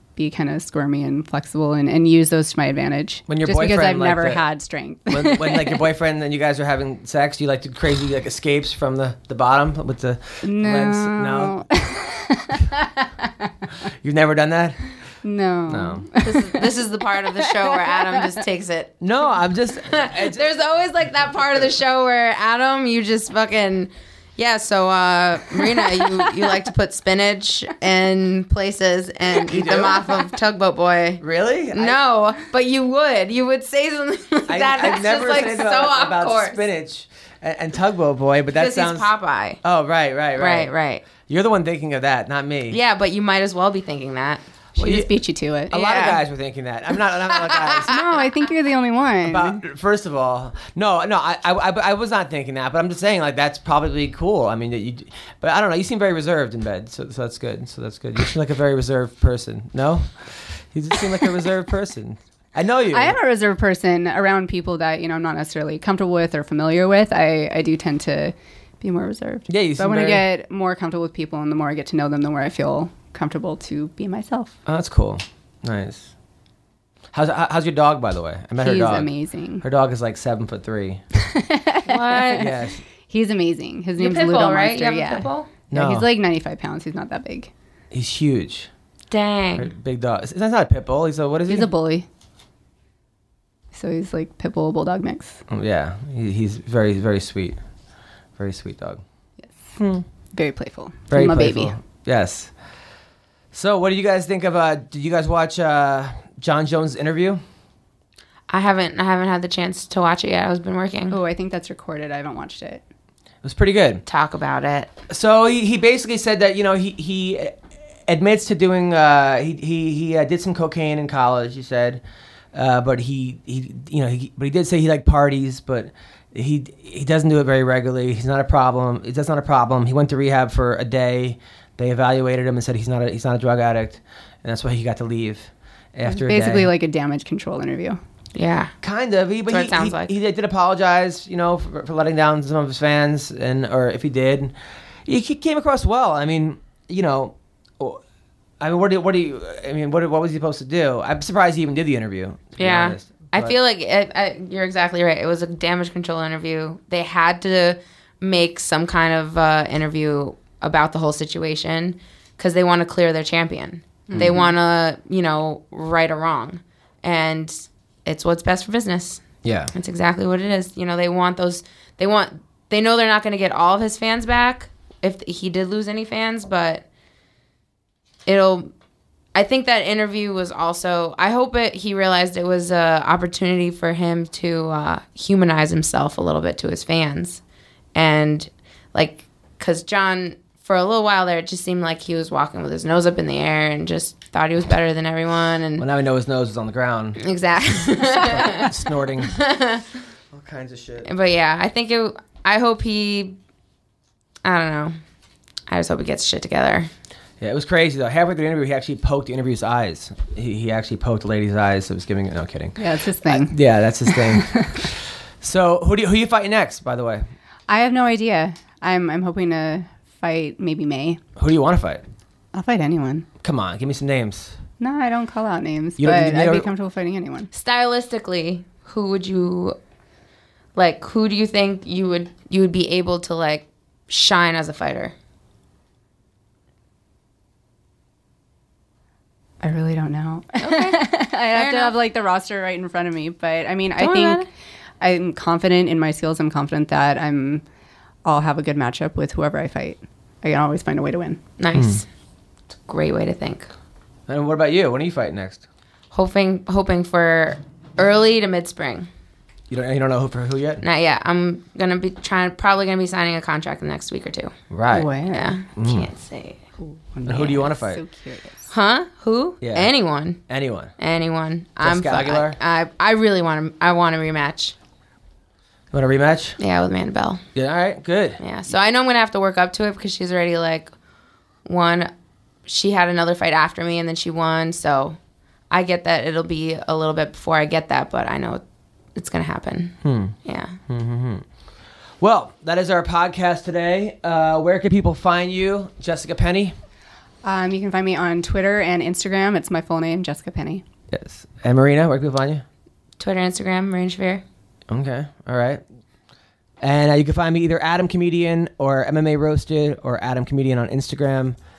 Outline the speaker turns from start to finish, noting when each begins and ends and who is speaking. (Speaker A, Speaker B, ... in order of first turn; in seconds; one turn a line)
Speaker A: 0.1-5.8
Speaker B: 3.3-4.4
Speaker B: 5.1-11.6
Speaker A: 10.4-13.5
Speaker B: 14.0-14.8
Speaker A: 15.2-16.7
Speaker B: 15.7-16.1
Speaker C: 16.2-19.1
Speaker A: 17.4-18.2
Speaker B: 19.0-20.7
Speaker C: 19.8-31.2
Speaker B: 29.4-30.0
Speaker B: 31.2-32.0
Speaker C: 31.7-36.6
Speaker B: 34.5-39.1
Speaker C: 38.5-39.6
Speaker B: 39.6-42.8
Speaker C: 40.4-41.1
Speaker C: 42.7-44.4
Speaker B: 44.8-45.1
Speaker A: 44.8-45.7
Speaker B: 45.7-47.9
Speaker C: 45.7-46.2
Speaker C: 47.5-48.0
Speaker A: 47.8-49.6
Speaker B: 49.2-63.2
Speaker A: 62.9-74.5
Speaker B: 69.5-70.3
Speaker B: 74.7-76.1
Speaker B: 77.1-81.0
Speaker A: 78.6-79.6
Speaker A: 81.2-82.5
Speaker C: 81.8-82.5
Speaker B: 82.3-82.8
Speaker A: 83.1-87.5
Speaker C: 84.0-85.5
Speaker B: 85.7-86.1
Speaker B: 87.9-88.7
Speaker C: 89.1-89.7
Speaker B: 89.5-91.7
Speaker A: 91.5-92.0
Speaker A: 93.7-95.4
Speaker B: 95.5-97.6
Speaker B: 98.4-99.0
Speaker B: 99.8-100.0
Speaker A: 100.3-101.7
Speaker B: 101.1-102.5
Speaker B: 103.5-107.4
Speaker C: 108.5-111.2
Speaker A: 111.1-112.8
Speaker B: 113.4-114.0
Speaker C: 114.1-114.9
Speaker B: 115.1-122.0
Speaker B: 122.5-136.7
Speaker A: 136.1-138.0
Speaker C: 138.3-138.7
Speaker B: 138.8-144.5
Speaker C: 139.5-140.1
Speaker B: 145.1-148.0
Speaker B: 148.6-153.6
Speaker C: 152.6-169.2
Speaker A: 164.1-164.5
Speaker B: 164.1-164.5
Speaker B: 169.4-169.7
Speaker C: 169.7-176.8
Speaker C: 178.2-178.7
Speaker C: 179.3-187.4
Speaker C: 187.9-195.8
Speaker B: 195.8-197.2
Speaker C: 197.2-199.8
Speaker B: 197.8-199.3
Speaker B: 200.3-201.1
Speaker C: 201.0-203.4
Speaker C: 204.4-204.9
Speaker C: 205.7-206.9
Speaker B: 207.4-217.3
Speaker A: 212.8-213.6
Speaker A: 214.1-214.9
Speaker A: 217.7-221.2
Speaker B: 221.4-222.0
Speaker A: 222.5-223.3
Speaker B: 223.4-224.6
Speaker A: 224.8-227.5
Speaker B: 226.0-226.7
Speaker C: 227.5-229.8
Speaker C: 230.8-235.1
Speaker A: 239.6-244.4
Speaker C: 240.6-242.0
Speaker C: 244.0-244.5
Speaker A: 245.0-247.6
Speaker A: 248.2-251.4
Speaker C: 251.6-252.1
Speaker B: 251.7-252.0
Speaker C: 252.8-253.7
Speaker B: 254.3-255.6
Speaker C: 256.1-259.1
Speaker B: 259.7-260.8
Speaker C: 260.8-264.5
Speaker B: 264.7-265.1
Speaker A: 264.9-265.5
Speaker C: 265.3-266.6
Speaker B: 265.8-266.1
Speaker A: 266.8-268.7
Speaker B: 267.2-268.0
Speaker C: 268.7-270.4
Speaker B: 269.6-269.9
Speaker B: 270.5-270.9
Speaker C: 271.0-274.7
Speaker B: 271.8-272.6
Speaker B: 275.9-276.6
Speaker C: 276.6-277.4
Speaker B: 277.5-278.4
Speaker C: 278.4-280.9
Speaker C: 281.6-282.1
Speaker C: 282.6-285.2
Speaker C: 285.7-288.6
Speaker C: 289.1-290.8
Speaker B: 290.0-290.4
Speaker B: 290.9-291.4
Speaker B: 292.2-296.7
Speaker A: 297.4-300.8
Speaker B: 301.1-302.6
Speaker C: 303.2-304.4
Speaker B: 304.9-305.8
Speaker B: 306.8-311.6